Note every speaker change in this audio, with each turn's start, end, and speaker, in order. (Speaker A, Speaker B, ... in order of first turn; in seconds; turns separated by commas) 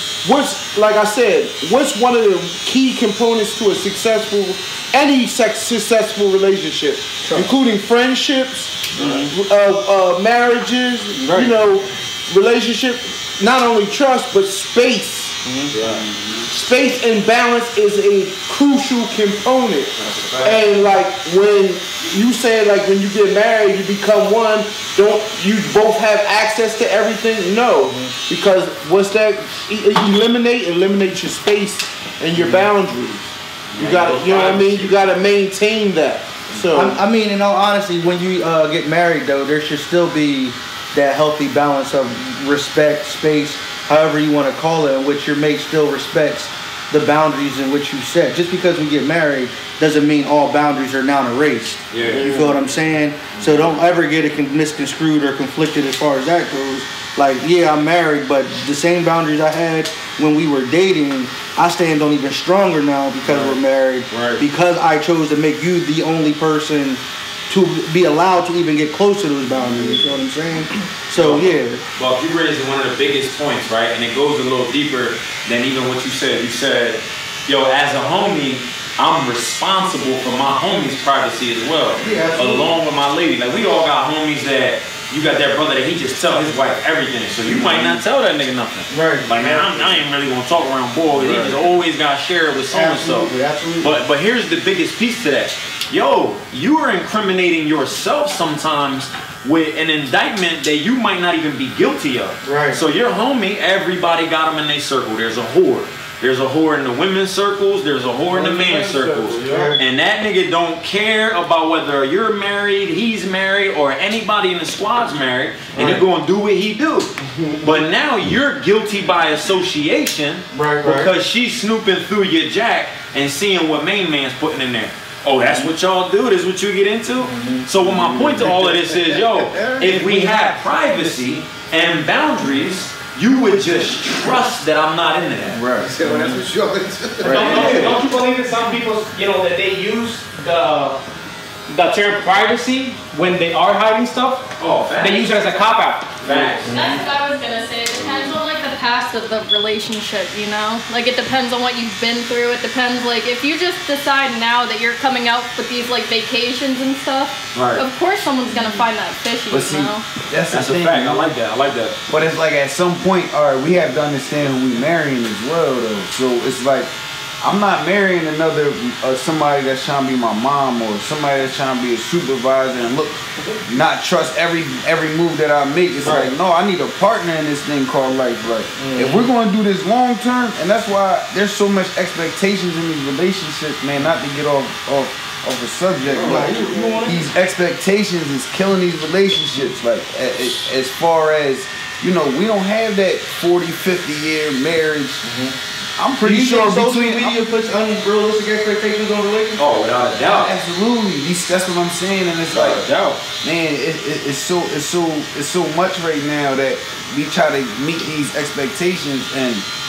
Speaker A: 0.2-15.4, Speaker B: 9.0-9.3, Speaker B: 11.2-11.5, Speaker B: 15.4-15.7, Speaker C: 15.7-16.1, Speaker D: 15.8-16.4, Speaker A: 16.5-37.0, Speaker C: 20.0-20.5, Speaker B: 27.9-28.1, Speaker C: 33.7-35.2, Speaker B: 36.7-71.8, Speaker C: 51.9-52.3, Speaker A: 52.0-52.6, Speaker C: 63.2-63.6, Speaker C: 64.1-64.4, Speaker C: 71.2-135.6, Speaker B: 82.0-82.8, Speaker D: 87.5-88.0, Speaker B: 88.9-89.8, Speaker D: 91.2-91.6, Speaker B: 92.7-94.0, Speaker B: 102.4-102.8, Speaker A: 108.3-109.8, Speaker B: 109.5-109.8, Speaker B: 115.8-116.0, Speaker B: 120.5-121.1, Speaker B: 127.3-127.7, Speaker D: 127.8-128.6, Speaker D: 129.8-130.2, Speaker D: 135.5-135.9, Speaker E: 135.8-138.0, Speaker B: 136.1-136.3, Speaker C: 137.2-138.0, Speaker F: 137.2-141.0, Speaker F: 141.7-146.6, Speaker C: 144.6-145.3, Speaker C: 146.2-147.0, Speaker G: 146.6-160.0, Speaker C: 157.6-157.8, Speaker D: 159.5-161.4, Speaker C: 160.5-162.0, Speaker D: 162.1-195.2, Speaker B: 176.0-176.3, Speaker B: 178.8-179.3, Speaker B: 186.2-187.2, Speaker A: 186.2-187.2, Speaker B: 195.2-195.5, Speaker D: 196.0-197.5, Speaker B: 196.2-199.6, Speaker C: 199.6-200.5, Speaker D: 200.2-202.9, Speaker C: 202.5-203.2, Speaker D: 203.4-209.7